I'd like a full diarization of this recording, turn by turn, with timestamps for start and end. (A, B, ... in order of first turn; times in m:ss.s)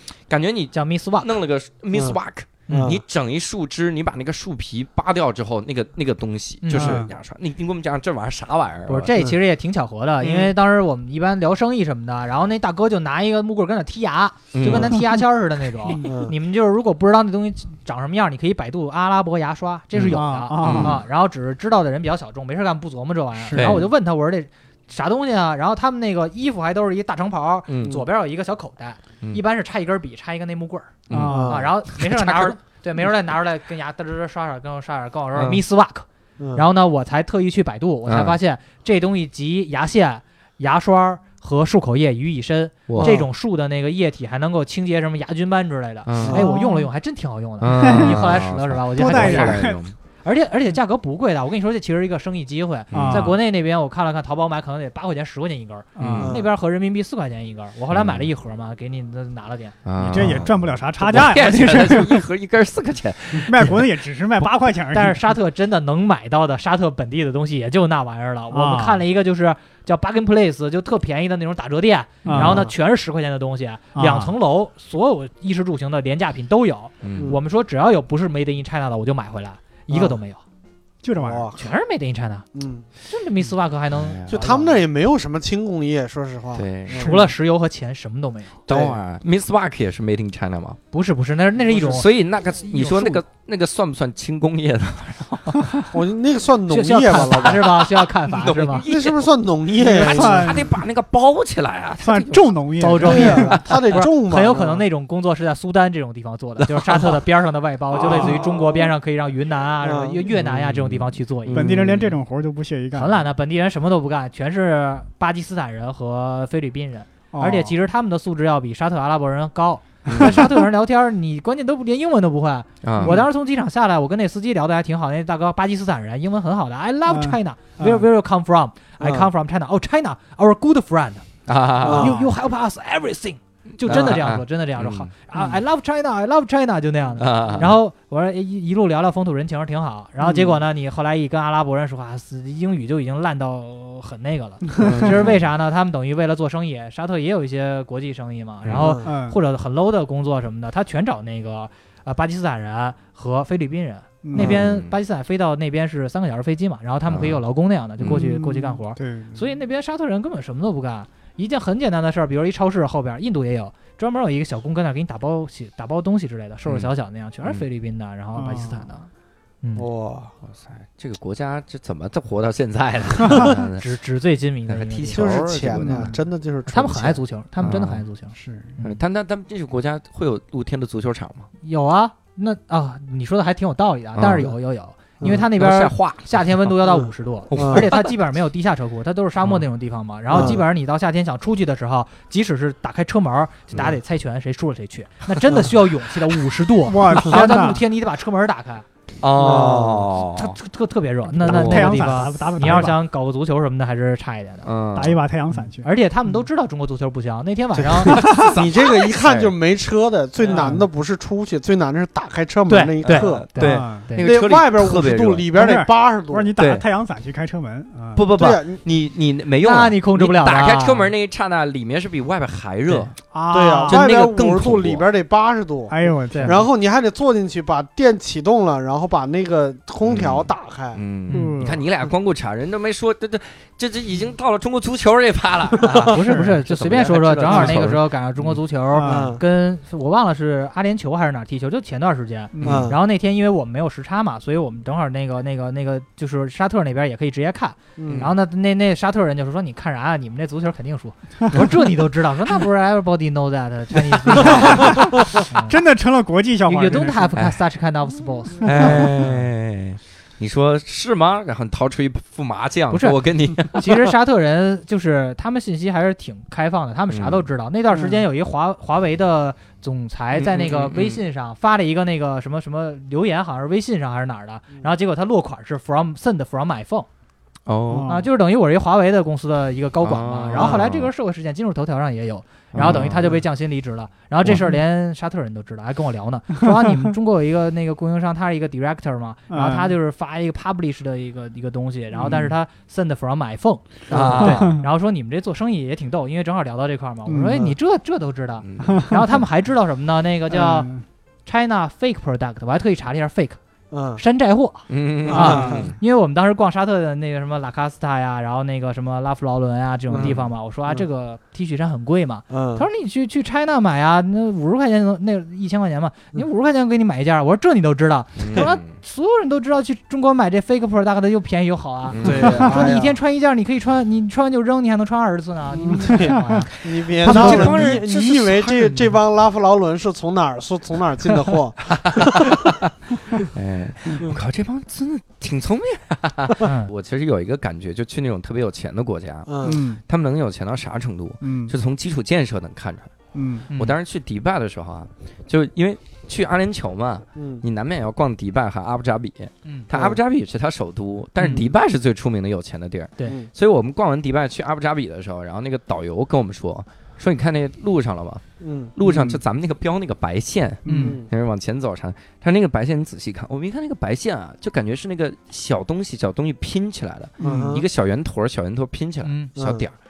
0:00.3-0:09.1 A
0:00.7-0:01.3 B
0:02.7-0:02.9 B
0:02.7-0:03.0 C
0:06.6-0:07.0 B
0:06.7-0:07.1 D
0:08.9-0:49.7 B
0:14.5-0:14.9 A
0:16.0-0:16.3 C
0:19.9-0:21.0 A
0:20.1-0:21.0 D
0:23.4-0:23.9 D
0:23.5-0:23.9 A
0:27.7-0:28.0 A
0:31.1-0:32.6 A
0:31.1-0:31.7 D
0:31.3-0:31.7 C
0:35.3-0:35.6 A
0:36.4-0:36.6 C
0:38.1-0:38.4 A
0:42.9-0:43.2 A
0:43.0-0:43.2 C
0:46.0-0:46.4 A
0:46.2-0:46.5 C
0:46.4-0:46.9 D
0:47.6-0:49.9 A
0:47.8-0:48.3 D
0:48.9-0:49.8 D
0:50.2-0:59.8 B
0:52.9-0:53.3 A
0:52.9-0:53.4 D
0:56.0-0:56.3 D
0:56.0-0:56.4 A
0:56.2-0:56.5 C
0:57.9-0:58.3 A
0:59.8-1:03.7 A
1:00.0-1:02.2 D
1:03.3-1:05.2 D
1:04.9-1:20.4 B
1:08.5-1:09.0 D
1:12.2-1:12.7 D
1:12.3-1:12.7 C
1:13.9-1:14.3 D
1:17.0-1:17.3 A
1:19.9-1:20.2 C
1:21.0-1:21.5 D
1:21.2-1:21.7 C
1:21.5-1:22.4 B
1:22.5-1:22.9 C
1:23.0-1:24.7 B
1:23.9-1:24.4 A
1:24.3-1:27.2 C
1:26.5-1:27.1 A
1:26.9-1:28.6 B
1:28.7-1:30.8 A
1:28.7-1:29.0 C
1:30.9-1:32.0 B
1:31.7-1:35.8 A
1:32.7-1:33.2 B
1:35.9-1:37.9 C
1:36.7-1:38.9 B
1:38.3-1:39.3 A
1:38.8-1:40.6 C
1:39.8-1:40.7 D
1:39.9-1:44.0 A
1:42.0-1:43.5 D
1:42.8-1:51.8 B
1:43.0-1:44.8 C
1:46.6-1:47.1 A
1:47.9-1:48.9 C
1:49.8-1:50.2 C
1:50.4-1:52.1 A
1:51.5-1:53.2 D
1:52.9-2:11.3 B
1:57.3-1:57.7 D
2:00.1-2:00.4 A
2:02.8-2:03.2 A
2:07.0-2:08.0 D
2:09.0-2:09.3 C
2:11.5-2:12.1 A
2:11.8-2:49.1 B
2:11.8-2:12.2 C
2:12.0-2:12.3 D
2:13.8-2:15.1 A
2:13.9-2:14.2 C
2:17.2-2:17.8 A
2:20.2-2:20.6 C
2:24.8-2:25.4 A
2:24.8-2:25.1 D
2:28.6-2:28.9 A
2:28.7-2:29.1 C
2:29.0-2:29.4 D
2:34.2-2:34.6 D
2:34.3-2:34.9 A
2:37.1-2:37.4 A
2:38.0-2:38.3 A
2:38.0-2:39.5 D
2:46.6-2:46.9 A
2:48.3-2:48.8 D
2:49.6-2:49.9 B
2:49.8-2:50.3 C
2:50.4-2:53.8 A
2:53.3-2:56.1 B
2:54.7-2:56.1 A
2:55.1-2:57.2 C
2:55.8-2:56.1 D
2:56.7-2:59.0 B
2:57.6-2:58.0 A
2:58.4-2:58.7 D
2:58.8-3:01.5 A
3:01.6-3:18.8 B
3:04.2-3:04.5 A
3:05.3-3:06.8 A
3:06.8-3:07.8 C
3:07.5-3:08.1 A
3:10.3-3:10.6 C
3:16.8-3:17.8 D
3:19.2-3:20.6 A
3:19.4-3:20.1 C
3:20.3-3:24.7 B
3:21.3-3:23.0 D
3:21.4-3:22.8 A
3:24.6-3:25.2 A
3:24.9-3:25.9 D
3:25.8-3:28.4 B
3:27.8-3:33.5 C
3:28.1-3:29.5 A
3:30.5-3:30.8 D
3:32.7-3:34.3 B
3:33.0-3:35.5 A
3:33.6-3:34.1 D
3:34.2-3:36.5 C
3:35.5-3:38.2 D
3:36.6-3:36.8 A
3:38.1-3:43.1 A
3:38.3-3:38.8 C
3:39.6-3:41.1 B
3:43.3-3:44.1 D
3:43.5-3:51.0 C
3:43.9-3:45.0 A
3:45.9-3:46.7 D
3:46.3-3:46.6 B
3:50.0-3:58.0 A
3:51.3-3:51.6 B
3:51.3-3:51.8 D
3:55.8-3:56.1 C
3:55.9-4:15.8 B
3:56.2-3:56.6 D
3:57.5-3:57.9 D
3:58.9-3:59.4 D
3:59.0-3:59.4 C
4:02.5-4:02.9 D
4:02.6-4:02.9 A
4:02.6-4:03.0 C
4:08.0-4:08.3 C
4:08.1-4:08.3 A
4:14.4-4:17.3 D
4:16.6-4:19.3 B
4:18.6-4:24.1 A
4:22.9-4:37.1 B
4:27.1-4:27.4 A
4:27.9-4:28.2 D
4:30.3-4:31.2 A
4:37.6-4:38.1 A
4:37.9-4:38.3 D
4:38.1-5:00.9 B
4:40.0-4:41.1 A
4:40.6-4:40.8 C
4:42.7-4:43.4 A
4:42.8-4:43.2 D
4:49.5-4:50.0 D
4:52.2-4:52.5 D
4:54.1-4:54.8 A
4:54.1-4:54.5 C
4:54.4-4:54.8 D
4:57.2-4:57.7 D
4:58.6-4:59.1 A
4:58.8-4:59.4 D
5:00.5-5:01.0 D
5:01.4-5:03.6 B
5:03.9-5:04.2 C
5:04.1-5:28.0 B
5:04.9-5:06.0 A
5:05.3-5:05.8 C
5:05.4-5:05.9 D
5:10.1-5:10.3 C
5:10.2-5:10.5 A
5:12.5-5:12.9 C
5:18.4-5:19.0 A
5:22.1-5:22.8 A
5:22.2-5:23.2 C
5:25.8-5:32.6 C
5:25.9-5:26.6 D
5:26.8-5:29.1 A
5:27.3-5:27.8 D
5:31.8-5:43.1 A
5:36.6-5:36.9 B
5:39.5-5:39.8 C
5:39.6-5:40.0 D
5:41.4-5:41.7 D
5:43.3-5:43.7 D
5:43.7-5:44.0 B
5:43.7-5:58.4 A
5:47.3-5:47.6 C
5:49.9-5:50.2 C
5:53.2-5:53.5 C
5:58.6-5:58.9 C
5:58.9-6:09.9 A
5:59.0-5:59.4 D
6:00.8-6:01.2 D
6:00.8-6:01.2 B
6:01.0-6:01.3 C
6:07.4-6:07.8 D
6:07.4-6:07.8 C
6:09.2-6:09.5 B
6:09.6-6:09.9 C